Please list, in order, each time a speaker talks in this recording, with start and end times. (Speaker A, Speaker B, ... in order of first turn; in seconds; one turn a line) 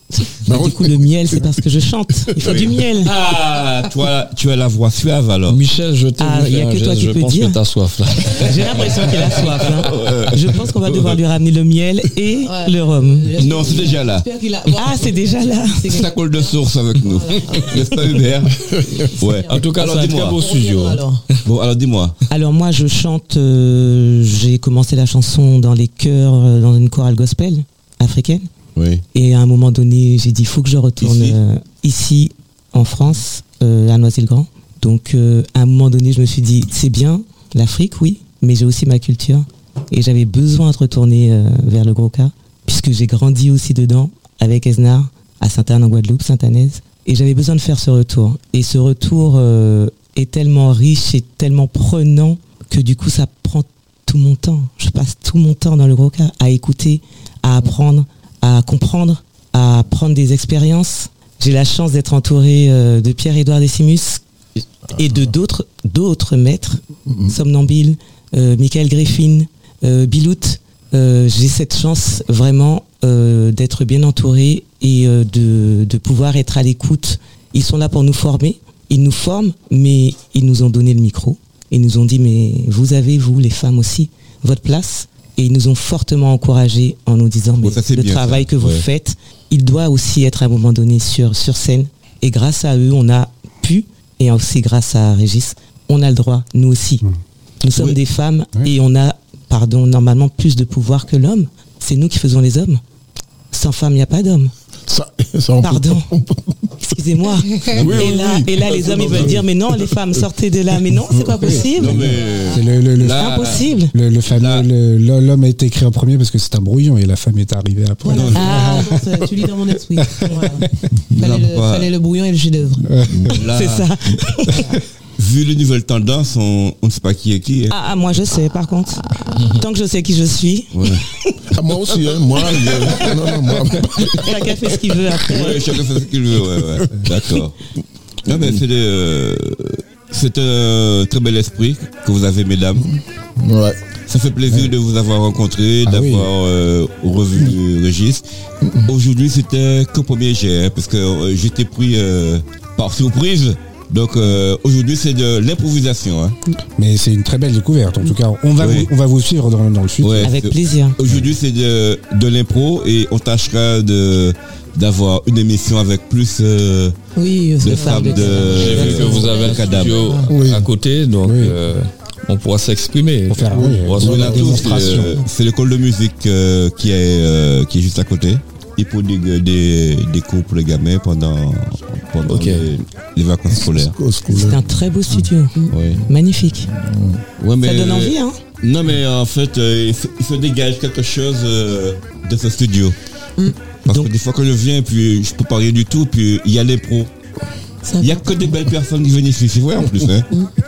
Speaker A: 0.4-1.5
Speaker B: 0.4-3.1
Speaker A: 2.3-2.7
Speaker C: 2.4-5.6
Speaker D: 5.5-9.7
Speaker B: 6.2-7.6
Speaker B: 8.3-13.3
Speaker C: 8.6-11.2
Speaker E: 8.8-9.4
Speaker E: 12.4-18.1
Speaker C: 13.3-14.3
Speaker B: 14.8-15.9
Speaker C: 15.9-20.4
Speaker E: 18.7-21.2
Speaker D: 19.5-21.4
Speaker C: 21.4-22.2
Speaker B: 22.3-28.5
Speaker C: 28.8-29.0
Speaker B: 29.1-64.2
Speaker C: 31.0-31.4
Speaker B: 64.9-97.0
Speaker A: 67.1-67.3
Speaker C: 87.6-88.8
Speaker B: 97.6-102.8
Speaker B: 103.5-104.5
Speaker A: 104.9-106.8
Speaker B: 105.6-106.1
Speaker B: 106.8-112.0
Speaker A: 107.6-110.0
Speaker C: 107.7-108.1
Speaker F: 111.3-113.4
Speaker E: 111.5-112.6
Speaker C: 111.7-113.7
Speaker B: 113.2-113.9
Speaker F: 113.9-119.0
Speaker C: 114.3-114.7
Speaker E: 118.0-122.9
Speaker C: 118.1-118.8
Speaker B: 118.3-118.9
Speaker F: 120.0-120.8
Speaker C: 121.2-121.9
Speaker F: 122.8-123.3
Speaker C: 123.3-123.9
Speaker B: 123.4-124.7
Speaker C: 125.2-127.7
Speaker B: 127.7-131.3
Speaker E: 129.0-129.4
Speaker C: 130.7-131.0
Speaker A: 131.5-134.3
Speaker B: 132.3-135.8
Speaker C: 132.6-133.1
Speaker C: 135.2-137.6
Speaker A: 136.8-137.2
Speaker C: 138.2-142.9
Speaker A: 142.8-143.8
Speaker C: 144.1-148.2
Speaker F: 145.8-146.3
Speaker A: 148.6-148.9
Speaker C: 148.8-156.4
Speaker F: 156.8-160.3
Speaker C: 158.6-158.9
Speaker C: 160.0-166.9
Speaker B: 160.2-161.0
Speaker E: 167.1-170.3
Speaker C: 167.6-170.1
Speaker D: 168.3-174.8
Speaker A: 170.3-170.7
Speaker F: 171.2-171.6
Speaker F: 173.3-175.1
Speaker A: 173.5-174.8
Speaker C: 174.0-183.9
Speaker D: 182.2-182.7
Speaker A: 183.5-184.7
Speaker B: 184.3-186.7
Speaker C: 185.7-186.1
Speaker A: 186.7-187.2
Speaker C: 187.4-192.9
Speaker B: 187.6-188.4
Speaker C: 193.8-197.1
Speaker E: 197.8-198.3
Speaker C: 198.0-200.3